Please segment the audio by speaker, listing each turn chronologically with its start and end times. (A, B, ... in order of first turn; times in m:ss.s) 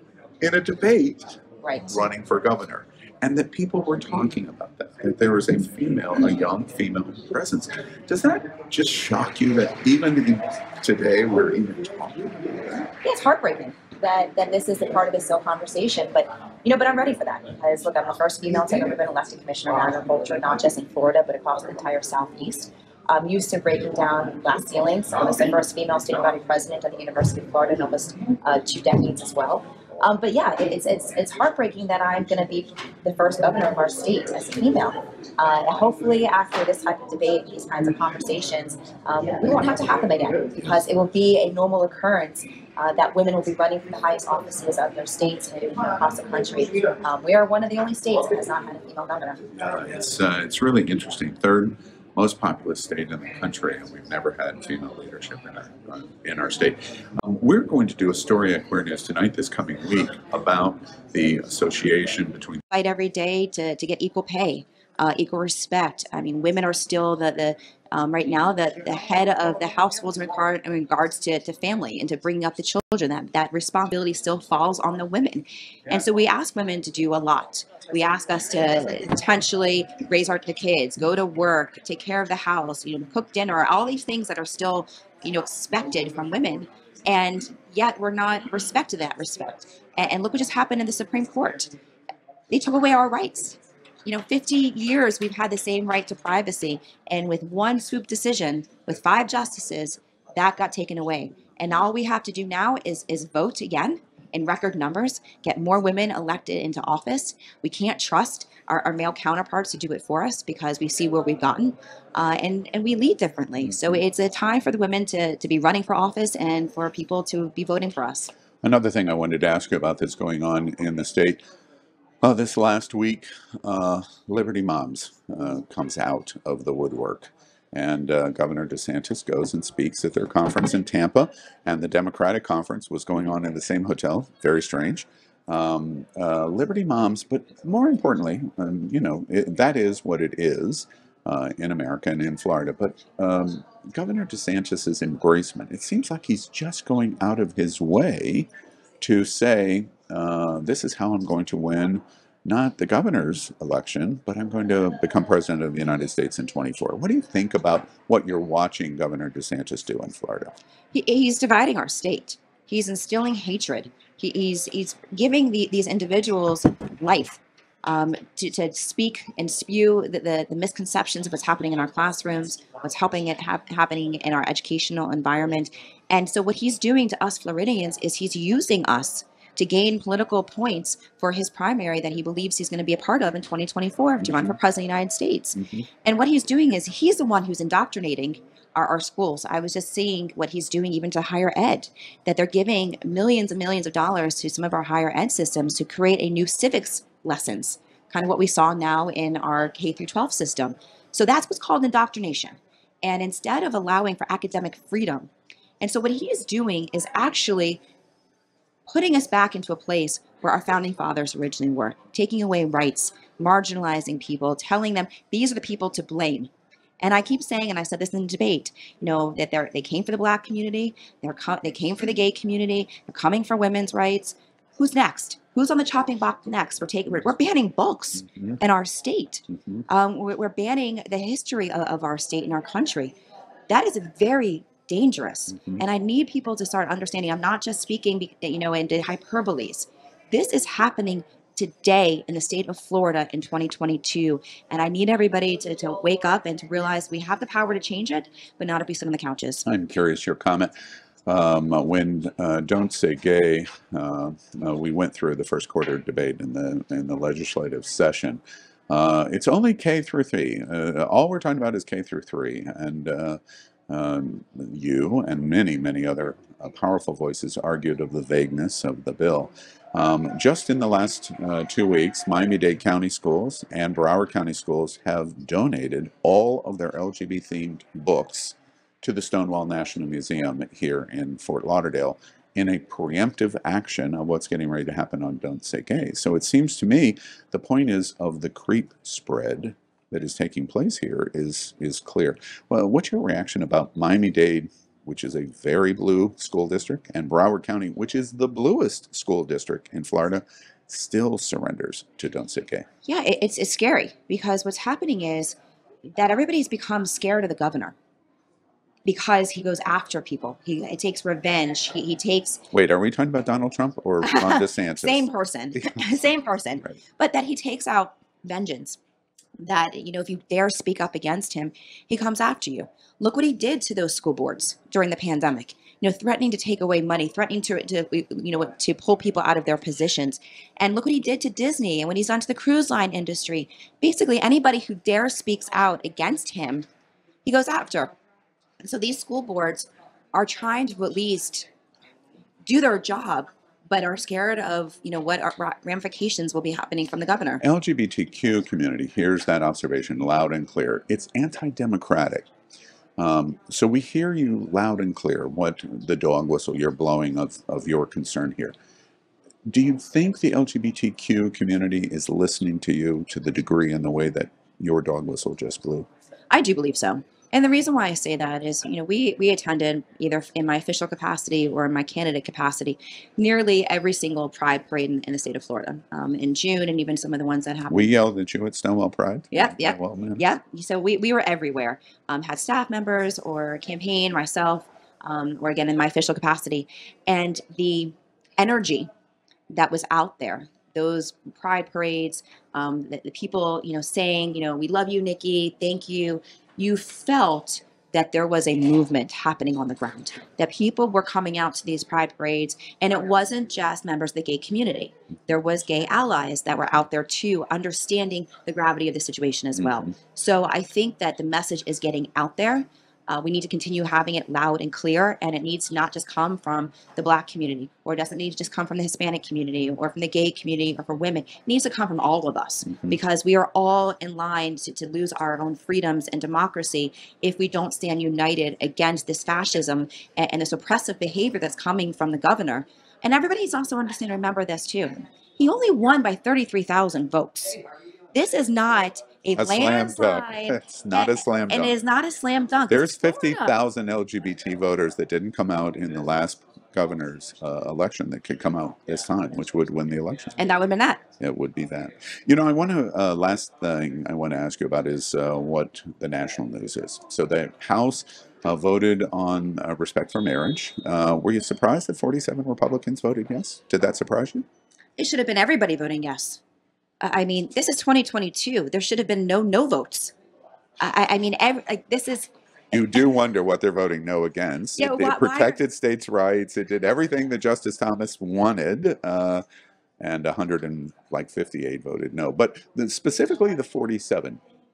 0:00.4-0:12.1 A
0:01.6-0:02.0 B
0:13.0-0:49.4 B
0:49.6-1:02.6 A
1:02.7-1:31.7 B
1:32.5-1:58.3 B
1:58.6-2:01.4 A
2:02.2-2:28.5 A
2:29.0-2:40.5 A
2:40.9-3:27.8 B
3:04.2-3:04.6 A
3:05.6-3:05.9 A
3:28.9-3:53.2 B
3:53.7-4:09.7 B
4:09.6-4:10.7 A
4:11.3-5:02.9 A
5:03.0-5:08.0 B
5:09.0-5:12.6 B
5:12.7-5:16.0 A
5:14.2-5:19.0 B
5:19.6-5:36.9 B
5:37.4-5:38.1 B
5:38.8-5:41.7 B
5:42.6-5:47.6 B
5:47.6-5:52.5 A
5:53.2-5:58.7 A
5:59.7-6:06.1 A
6:06.5-6:18.1 B
6:17.9-6:20.4 A
6:19.5-6:29.1 B
6:29.7-7:17.8 B
6:49.8-6:50.0 A
7:18.3-7:23.8 B
7:19.6-7:21.9 A
7:22.9-7:30.6 A
7:30.6-7:31.2 B
7:31.4-7:44.7 A
7:45.2-7:46.6 B
7:47.2-7:50.4 B
7:51.0-7:52.5 B
7:52.9-7:59.6 A
7:55.0-7:55.8 B
8:00.2-8:04.6 A